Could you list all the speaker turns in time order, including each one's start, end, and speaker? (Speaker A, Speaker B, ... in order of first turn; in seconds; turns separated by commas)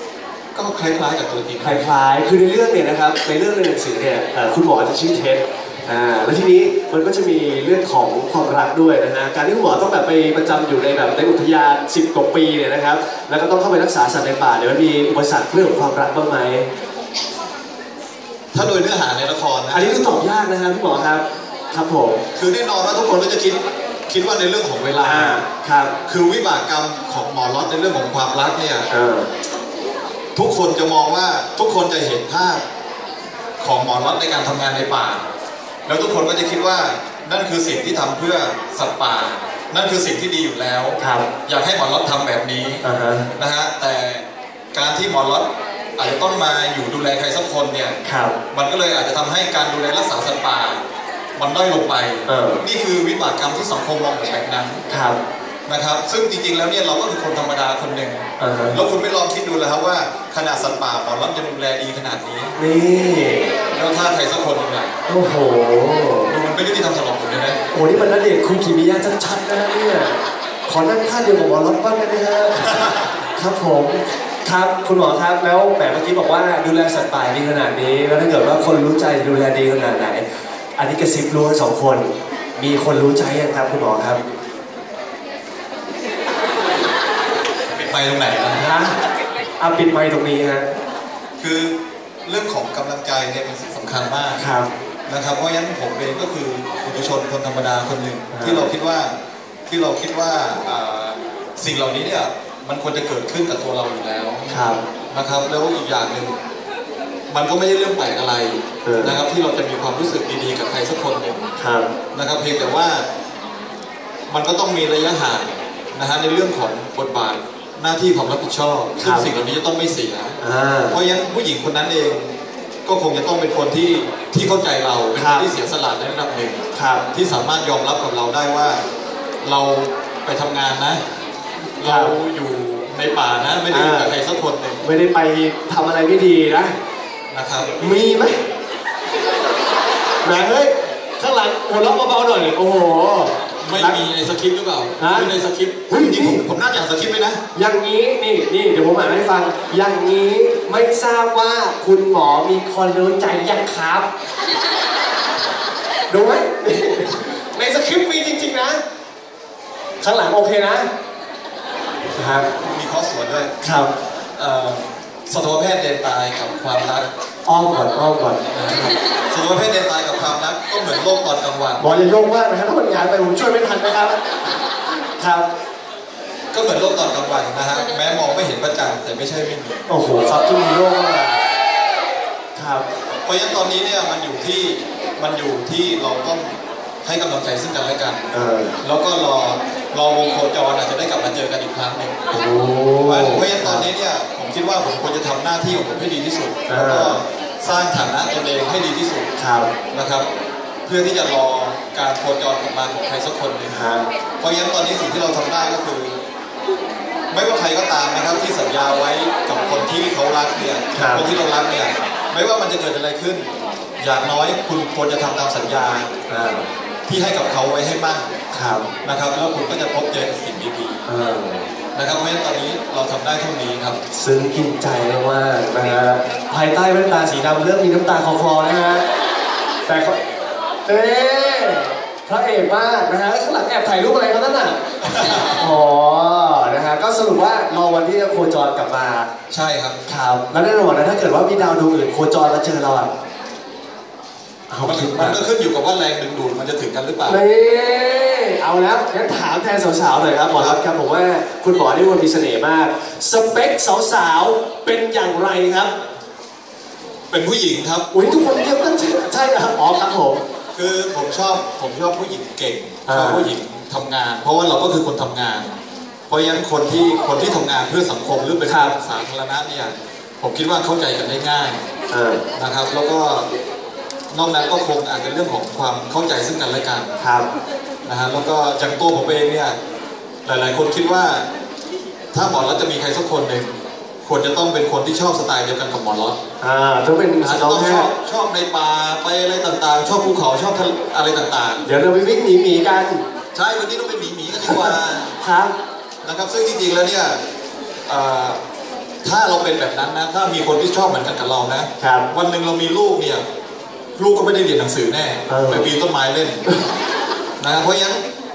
Speaker A: 0.5-1.9, Speaker B: 1.6-16.7, Speaker A: 18.5-20.2, Speaker B: 19.7-22.2, Speaker A: 22.4-23.6, Speaker A: 24.1-25.4, Speaker B: 25.0-25.9, Speaker A: 26.1-28.9, Speaker B: 28.9-29.3, Speaker A: 30.3-32.6, Speaker A: 33.6-35.2, Speaker A: 35.9-42.8, Speaker B: 41.0-41.3, Speaker B: 42.8-43.3, Speaker A: 43.3-48.0, Speaker B: 48.0-48.4, Speaker A: 48.5-50.8, Speaker A: 51.4-54.8, Speaker B: 52.3-52.6, Speaker B: 54.9-55.2, Speaker A: 55.7-62.5, Speaker B: 58.4-58.8, Speaker B: 62.5-63.5, Speaker A: 63.7-65.0, Speaker B: 65.1-66.4, Speaker A: 66.3-67.6, Speaker B: 67.7-72.6, Speaker A: 72.6-73.2, Speaker B: 73.3-80.2, Speaker B: 80.8-84.2, Speaker A: 87.7-88.7, Speaker B: 88.5-88.9, Speaker B: 89.6-90.7, Speaker A: 91.4-91.7, Speaker A: 92.2-94.4, Speaker B: 94.4-94.7, Speaker A: 95.1-99.1, Speaker B: 98.3-98.7, Speaker A: 99.7-106.3, Speaker B: 104.5-104.8, Speaker A: 107.3-111.5, Speaker B: 108.8-109.2, Speaker B: 111.6-111.9, Speaker A: 112.1-113.0, Speaker A: 114.3-120.4, Speaker B: 119.0-119.3, Speaker B: 120.4-121.0, Speaker A: 120.9-122.2, Speaker A: 122.8-126.6, Speaker B: 125.2-125.5, Speaker B: 126.7-127.0, Speaker A: 127.1-128.8, Speaker A: 129.4-131.0, Speaker A: 131.8-134.8, Speaker B: 131.8-132.1, Speaker B: 133.7-134.1, Speaker B: 134.8-136.7, Speaker A: 137.3-137.7, Speaker B: 137.8-138.4, Speaker B: 140.2-144.0, Speaker A: 143.6-147.4, Speaker B: 145.0-145.3, Speaker B: 145.9-146.4, Speaker B: 147.5-154.1, Speaker B: 156.1-158.8, Speaker B: 160.0-160.9, Speaker B: 162.2-162.5, Speaker A: 162.6-163.5, Speaker B: 163.6-163.9, Speaker A: 164.4-167.1, Speaker B: 167.4-168.9, Speaker A: 168.5-171.8, Speaker B: 171.8-174.2, Speaker B: 175.2-175.5, Speaker A: 176.5-179.8, Speaker B: 179.9-181.5, Speaker B: 182.5-182.9, Speaker A: 183.2-186.5, Speaker A: 187.0-188.3, Speaker B: 188.3-188.7, Speaker A: 188.8-192.1, Speaker B: 192.3-193.8, Speaker A: 193.0-199.3, Speaker B: 196.7-197.2, Speaker B: 199.4-199.7, Speaker A: 199.9-200.3, Speaker A: 200.8-203.8, Speaker B: 203.7-204.0, Speaker A: 204.4-206.2, Speaker A: 207.3-213.5, Speaker B: 210.9-211.2, Speaker A: 214.0-216.1, Speaker B: 216.3-216.7, Speaker A: 217.1-218.2, Speaker B: 218.5-218.9, Speaker A: 219.0-221.0, Speaker B: 221.1-221.6, Speaker A: 221.9-224.0, Speaker B: 224.1-229.0, Speaker B: 229.8-230.2, Speaker B: 230.8-234.8, Speaker A: 235.0-235.6, Speaker B: 235.6-239.3, Speaker A: 239.5-240.0, Speaker B: 240.1-243.1, Speaker B: 244.7-245.4, Speaker A: 244.8-247.4, Speaker B: 247.2-255.9, Speaker A: 257.3-258.1, Speaker B: 258.1-260.4, Speaker A: 260.7-265.7, Speaker B: 263.1-263.5, Speaker A: 266.3-271.8, Speaker B: 268.6-268.9, Speaker B: 272.1-272.4, Speaker A: 272.6-273.5, Speaker A: 274.3-277.1, Speaker B: 277.2-277.5, Speaker A: 278.1-279.8, Speaker A: 280.4-281.5, Speaker A: 282.3-283.7, Speaker A: 284.2-286.4, Speaker B: 286.6-288.1, Speaker A: 287.4-291.8, Speaker B: 291.9-293.2, Speaker A: 293.5-295.3, Speaker B: 294.6-295.7, Speaker A: 296.2-297.4, Speaker A: 298.1-298.6, Speaker A: 299.2-303.4, Speaker B: 302.0-302.3, Speaker A: 304.1-306.7, Speaker B: 305.5-305.9, Speaker A: 307.6-308.2